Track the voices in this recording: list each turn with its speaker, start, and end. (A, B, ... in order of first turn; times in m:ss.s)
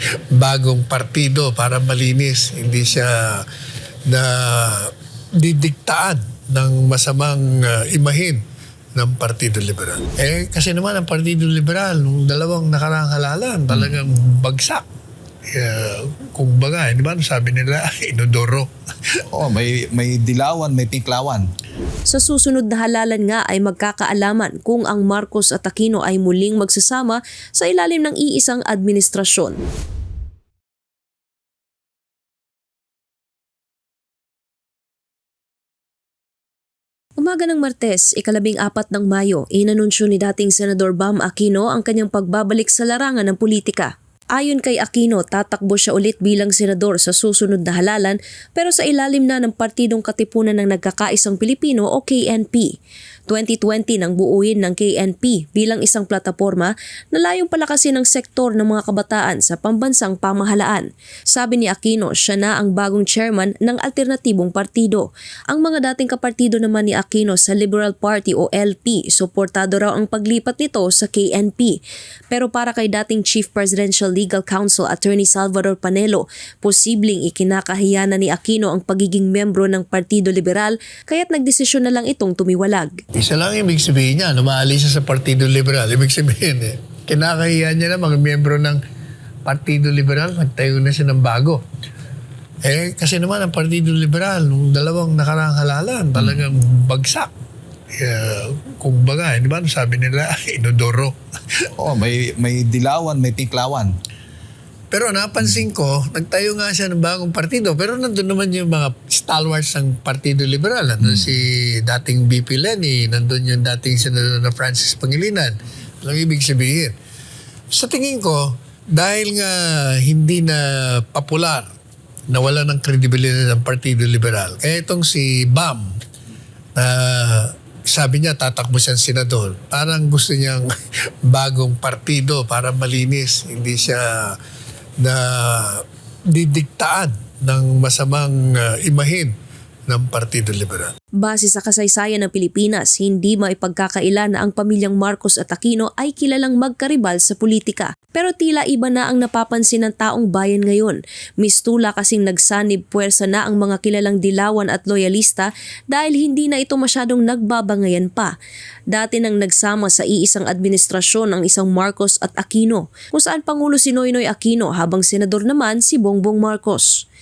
0:00.3-0:03.5 A
0:04.1-0:08.4 A
0:09.0-0:14.8 A
0:15.5-0:18.7 A
0:19.3-0:21.5 B
0:22.1-0:29.6 C
0:37.2-0:52.8 C
0:53.3-1:11.8 C
1:12.3-1:23.0 C
1:23.1-1:28.8 A
1:29.4-1:31.6 A
1:32.6-1:37.3 A
1:38.0-1:41.2 A
1:41.8-1:43.9 B
1:44.9-1:57.0 A
1:57.7-2:01.7 A
2:02.3-2:06.0 A
2:06.8-2:10.7 A
2:11.2-2:14.4 A
2:15.0-2:19.3 A
2:19.9-2:20.9 A
2:21.2-2:38.3 C
2:38.9-2:47.0 C